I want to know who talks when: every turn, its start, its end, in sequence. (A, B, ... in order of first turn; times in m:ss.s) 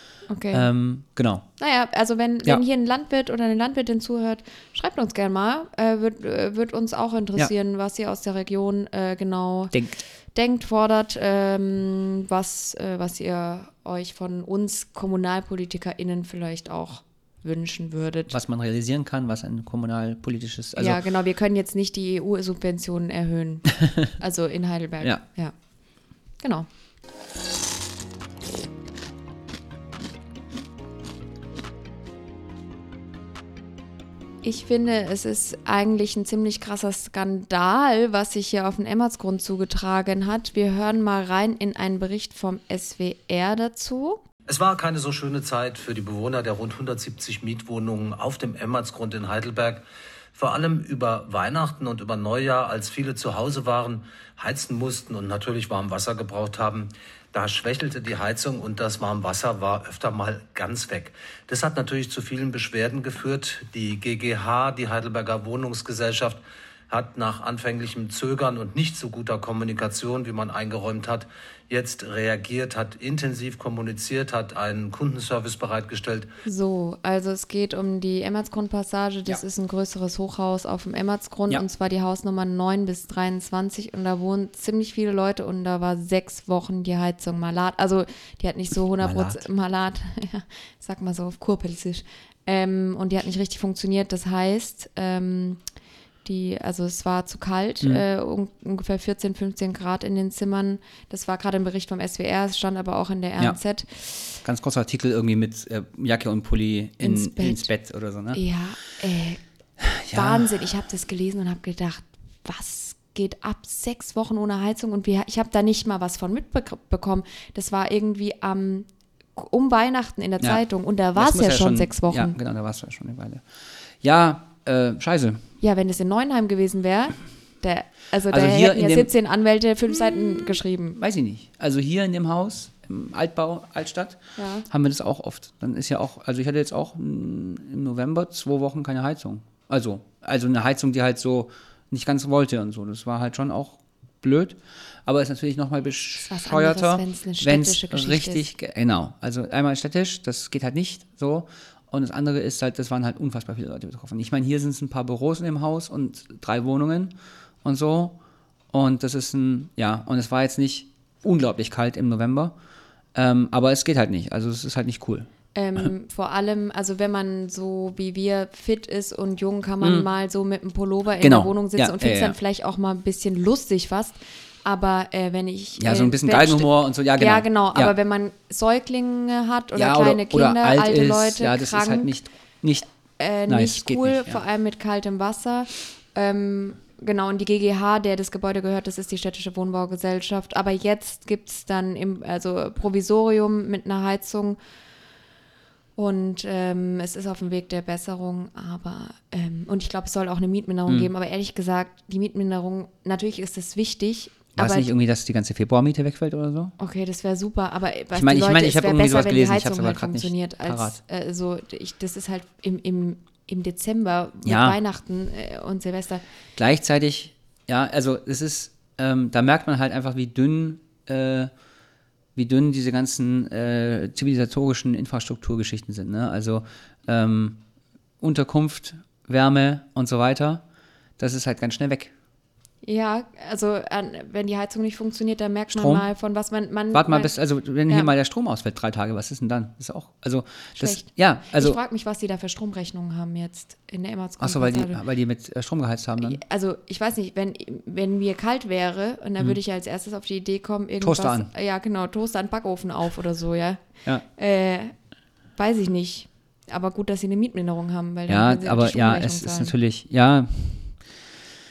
0:00.3-0:00.7 A
0:00.5-0:01.4 B
0:01.6-0:09.8 A
0:09.7-0:10.0 B
0:10.3-0:18.4 A
0:18.3-0:21.0 B
0:20.8-0:25.5 A
0:23.8-0:24.1 B
0:26.4-0:26.7 A
0:34.4-0:44.2 A
0:44.5-0:49.8 C
0:50.3-1:16.3 C
1:16.4-1:35.6 A
1:29.0-1:29.4 B
1:36.2-1:44.4 A
1:44.4-1:48.4 B
1:47.0-1:47.7 A
1:48.3-1:49.4 A
1:49.8-1:50.6 B
1:50.1-2:02.3 A
2:01.2-2:03.4 B
2:04.0-2:05.4 B
2:05.6-2:11.0 A
2:08.3-2:09.1 B
2:11.0-2:38.2 B
2:14.4-2:14.7 A
2:26.2-2:28.4 A
2:38.7-2:42.5 B
2:43.2-2:45.3 B
2:45.5-3:02.1 A
2:49.8-2:50.1 B
2:51.2-2:52.3 B
2:55.8-2:57.9 B
2:59.7-3:02.9 B
3:03.2-3:14.6 A
3:03.5-3:04.4 B
3:16.0-3:24.9 A
3:24.6-3:26.7 B
3:26.8-3:36.2 A
3:28.1-3:31.0 B
3:34.4-3:34.8 B
3:36.6-3:41.5 B
3:42.3-3:47.6 B
3:48.2-3:50.6 B
3:51.2-3:52.1 B
3:52.8-3:57.3 A
3:55.7-3:56.0 B
3:56.9-4:01.8 B
4:00.8-4:05.0 A
4:04.4-4:06.4 B
4:06.2-4:14.9 A
4:11.0-4:11.5 B
4:15.6-4:19.7 A
4:18.3-4:21.0 B